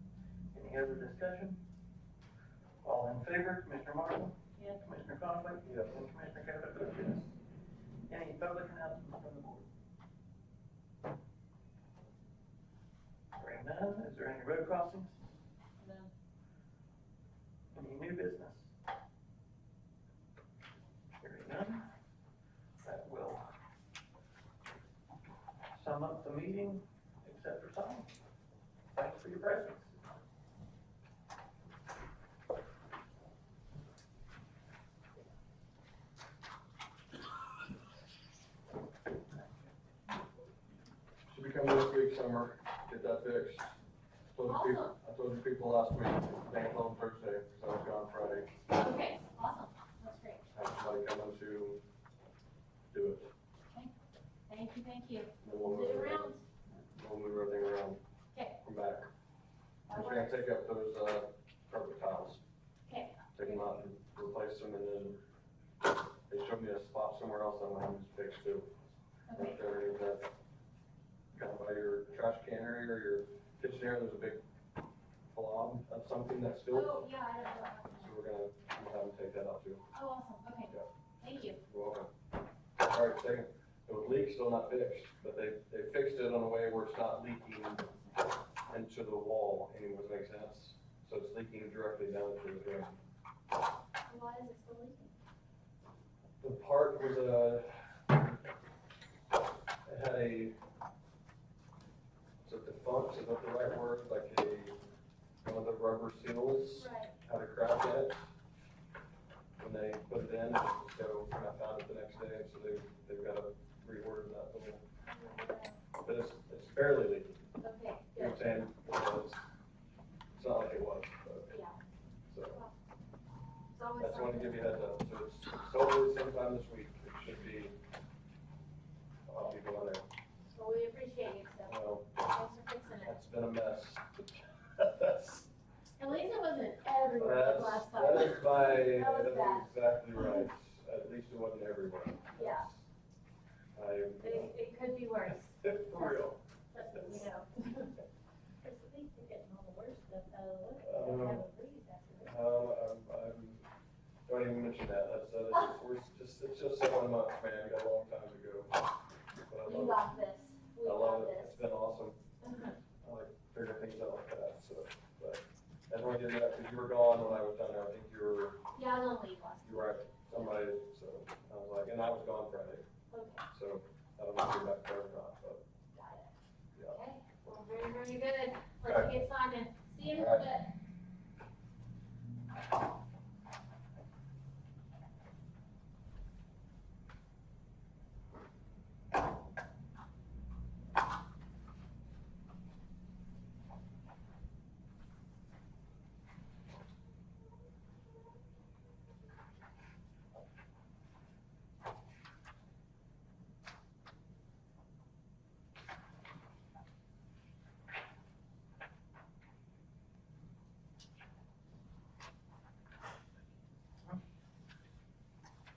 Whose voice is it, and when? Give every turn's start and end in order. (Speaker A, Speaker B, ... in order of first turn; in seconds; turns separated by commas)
Speaker A: 0.5-1.6, Speaker A: 2.8-7.3, Speaker B: 5.7-5.9, Speaker A: 8.1-9.7, Speaker A: 13.3-15.2, Speaker C: 15.8-16.1, Speaker A: 17.7-18.7, Speaker A: 21.2-21.9, Speaker A: 22.8-23.5, Speaker A: 25.7-28.1, Speaker A: 28.9-30.0, Speaker B: 41.3-43.7, Speaker B: 44.3-48.5, Speaker C: 44.5-45.0, Speaker C: 48.7-50.4, Speaker B: 50.5-51.8, Speaker B: 52.9-53.3, Speaker C: 54.5-56.4, Speaker B: 55.4-56.3, Speaker B: 56.9-58.0, Speaker B: 58.6-59.1, Speaker C: 59.9-60.4, Speaker B: 59.9-62.4, Speaker C: 62.9-63.6, Speaker B: 63.3-65.2, Speaker B: 66.3-68.7, Speaker C: 69.3-69.6, Speaker B: 69.3-70.3, Speaker B: 71.3-74.4, Speaker B: 75.3-77.0, Speaker C: 76.7-78.2, Speaker B: 78.0-79.8, Speaker C: 79.9-80.7, Speaker C: 81.2-81.6, Speaker B: 81.6-82.1, Speaker B: 82.8-87.9, Speaker B: 88.7-93.0, Speaker C: 94.1-95.1, Speaker B: 96.4-98.2, Speaker B: 99.8-100.5, Speaker B: 102.4-104.8, Speaker B: 105.4-108.2, Speaker C: 106.7-107.1, Speaker B: 109.6-114.8, Speaker C: 115.0-115.8, Speaker B: 116.0-117.4, Speaker C: 117.6-118.4, Speaker B: 118.2-119.5, Speaker B: 120.3-121.5, Speaker C: 121.5-121.8, Speaker B: 122.3-122.6, Speaker C: 122.5-122.7, Speaker C: 123.7-124.7, Speaker B: 124.0-127.8, Speaker B: 129.3-130.0, Speaker C: 130.5-133.2, Speaker B: 131.7-132.2, Speaker B: 133.0-135.5, Speaker C: 136.0-140.4, Speaker B: 137.2-142.8, Speaker C: 142.3-142.7, Speaker B: 143.7-144.5, Speaker C: 144.2-147.9, Speaker B: 145.6-147.2, Speaker C: 148.6-152.4, Speaker B: 150.8-151.4, Speaker B: 152.2-153.6, Speaker B: 154.3-158.8, Speaker B: 159.5-160.1, Speaker C: 159.6-161.6, Speaker B: 160.8-162.2, Speaker C: 162.4-162.8, Speaker B: 163.0-168.6, Speaker C: 168.7-170.5, Speaker B: 169.6-172.8, Speaker C: 173.1-173.4, Speaker B: 173.5-175.6, Speaker C: 175.9-176.3, Speaker C: 176.9-180.7, Speaker B: 178.8-179.2, Speaker B: 180.1-180.4